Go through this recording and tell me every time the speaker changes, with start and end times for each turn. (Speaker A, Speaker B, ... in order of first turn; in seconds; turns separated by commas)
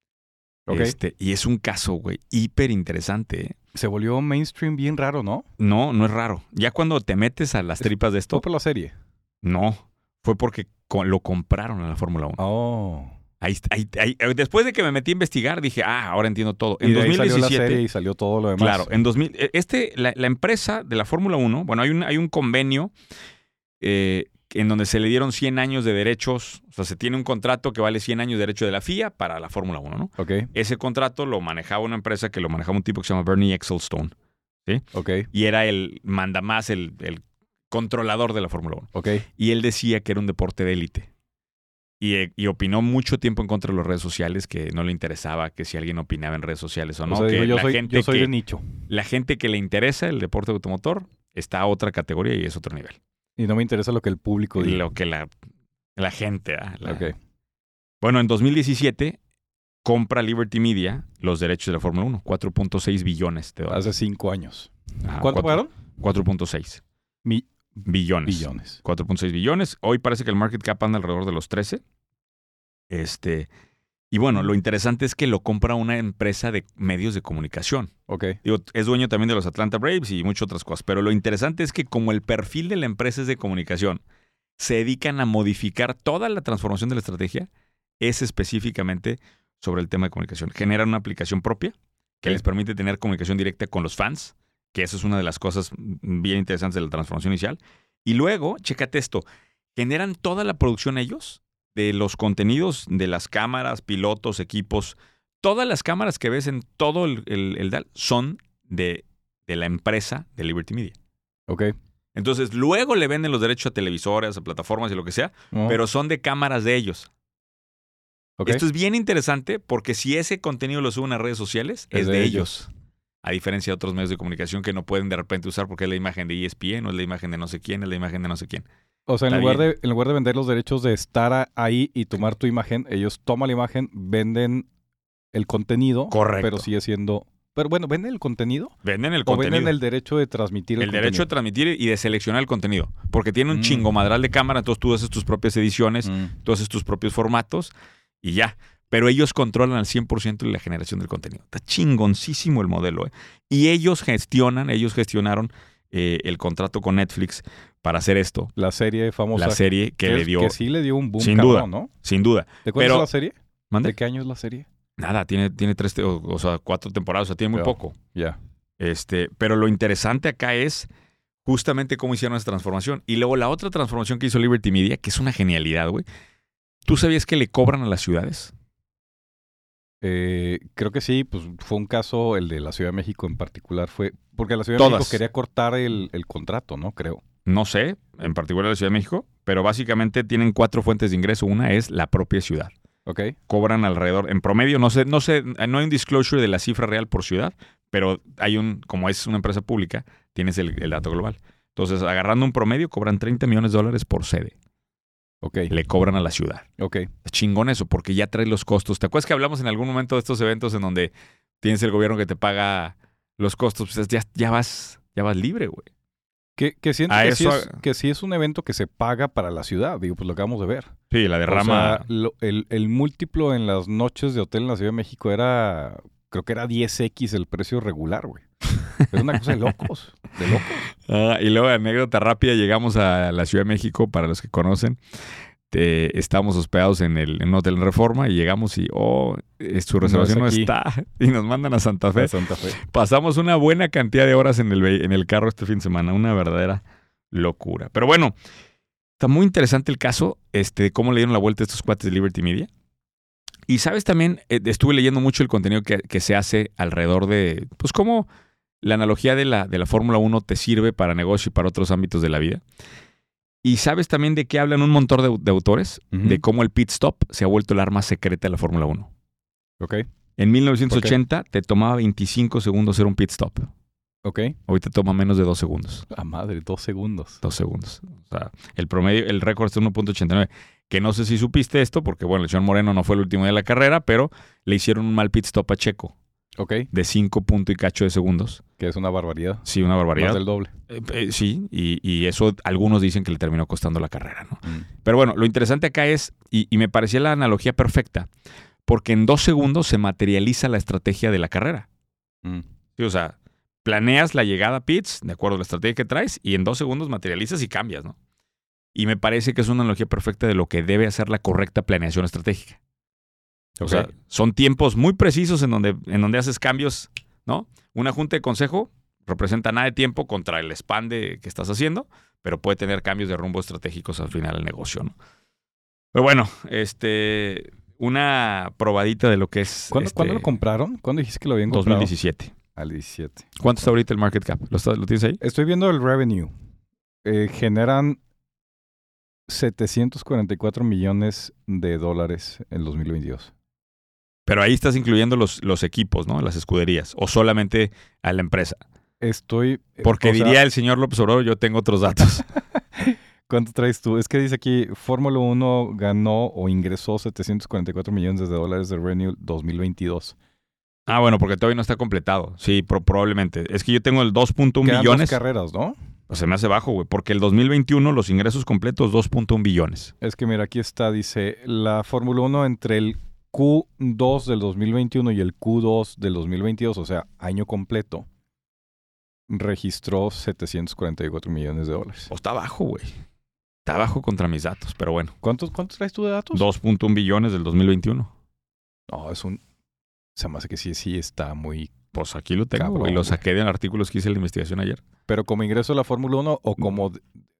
Speaker A: 0.7-0.9, Speaker B: 0.7-3.5, Speaker A: 3.7-5.4, Speaker B: 5.6-8.4, Speaker A: 7.8-8.9, Speaker B: 9.4-12.4, Speaker A: 12.4-13.2, Speaker B: 13.4-17.8, Speaker A: 16.8-18.9, Speaker B: 18.6-22.9, Speaker B: 23.8-34.1, Speaker A: 30.2-30.5, Speaker B: 34.6-41.1, Speaker A: 34.9-35.3, Speaker A: 38.9-39.2, Speaker B: 42.0-48.3, Speaker A: 47.1-48.7, Speaker B: 48.9-53.0, Speaker A: 53.4-54.8, Speaker B: 54.6-55.3, Speaker B: 56.0-57.1, Speaker A: 56.8-57.1, Speaker B: 58.0-59.2, Speaker B: 59.8-63.9, Speaker A: 63.7-65.7, Speaker B: 65.0-66.8, Speaker A: 67.2-68.8, Speaker B: 67.8-71.8, Speaker B: 72.9-73.5, Speaker B: 74.1-77.9, Speaker A: 78.1-78.4, Speaker B: 78.4-84.0, Speaker B: 84.6-87.5, Speaker B: 88.0-99.2, Speaker B: 99.7-110.9, Speaker A: 111.5-111.7, Speaker B: 112.1-117.1, Speaker A: 115.5-115.8, Speaker B: 118.5-122.7, Speaker A: 121.9-122.5, Speaker B: 123.2-128.7, Speaker A: 129.1-134.7, Speaker B: 129.3-129.7, Speaker A: 135.3-138.7, Speaker B: 136.1-136.7, Speaker B: 138.8-139.7, Speaker A: 139.2-141.3, Speaker B: 140.8-158.5, Speaker A: 143.5-143.8, Speaker A: 146.0-146.3, Speaker A: 158.6-161.9, Speaker B: 159.3-160.6, Speaker B: 161.2-163.1, Speaker A: 162.6-164.7, Speaker B: 165.0-168.0, Speaker A: 167.5-168.4, Speaker B: 168.8-170.9, Speaker B: 171.4-176.0, Speaker B: 176.8-178.5, Speaker A: 180.0-187.2, Speaker B: 184.8-185.2, Speaker B: 187.4-192.7, Speaker A: 193.1-193.3, Speaker B: 193.5-204.5, Speaker A: 205.4-205.7, Speaker B: 205.7-206.7, Speaker A: 206.8-207.1, Speaker B: 207.2-215.9, Speaker A: 216.6-220.9, Speaker B: 217.1-217.8, Speaker B: 221.1-222.1, Speaker A: 221.5-228.4, Speaker B: 228.8-229.8, Speaker A: 229.1-230.8, Speaker B: 231.0-235.0, Speaker B: 235.7-248.3, Speaker A: 240.0-240.7, Speaker A: 242.2-242.8, Speaker B: 249.2-252.7, Speaker B: 253.7-258.3, Speaker B: 258.8-262.6, Speaker B: 263.6-269.1, Speaker A: 266.1-266.4, Speaker A: 269.8-270.0, Speaker B: 270.4-273.7, Speaker A: 270.9-271.2, Speaker A: 274.2-274.6, Speaker B: 274.7-276.1, Speaker A: 276.1-277.4, Speaker B: 277.4-286.1, Speaker A: 286.6-286.9, Speaker B: 286.9-288.6, Speaker A: 288.8-289.6, Speaker B: 289.6-298.3, Speaker A: 290.1-290.7, Speaker B: 298.9-301.9, Speaker B: 302.9-308.1, Speaker B: 308.9-312.8, Speaker A: 313.8-314.1, Speaker B: 313.8-325.1, Speaker B: 326.1-330.5, Speaker A: 329.9-332.1, Speaker B: 331.7-332.5, Speaker A: 332.8-333.5, Speaker B: 333.6-335.4, Speaker A: 335.4-336.5, Speaker A: 337.2-338.2, Speaker A: 339.5-343.5, Speaker B: 344.4-348.8, Speaker A: 349.2-350.6, Speaker B: 350.0-352.4, Speaker A: 352.9-360.4, Speaker B: 361.1-365.4, Speaker A: 364.8-365.9, Speaker B: 366.3-370.1, Speaker A: 370.2-378.2, Speaker A: 379.5-382.3, Speaker B: 382.3-383.1, Speaker B: 383.8-385.3, Speaker A: 385.4-386.6, Speaker B: 386.5-388.3, Speaker A: 389.1-389.6, Speaker A: 390.4-391.9, Speaker B: 392.1-395.0, Speaker A: 392.8-393.4, Speaker A: 395.3-397.2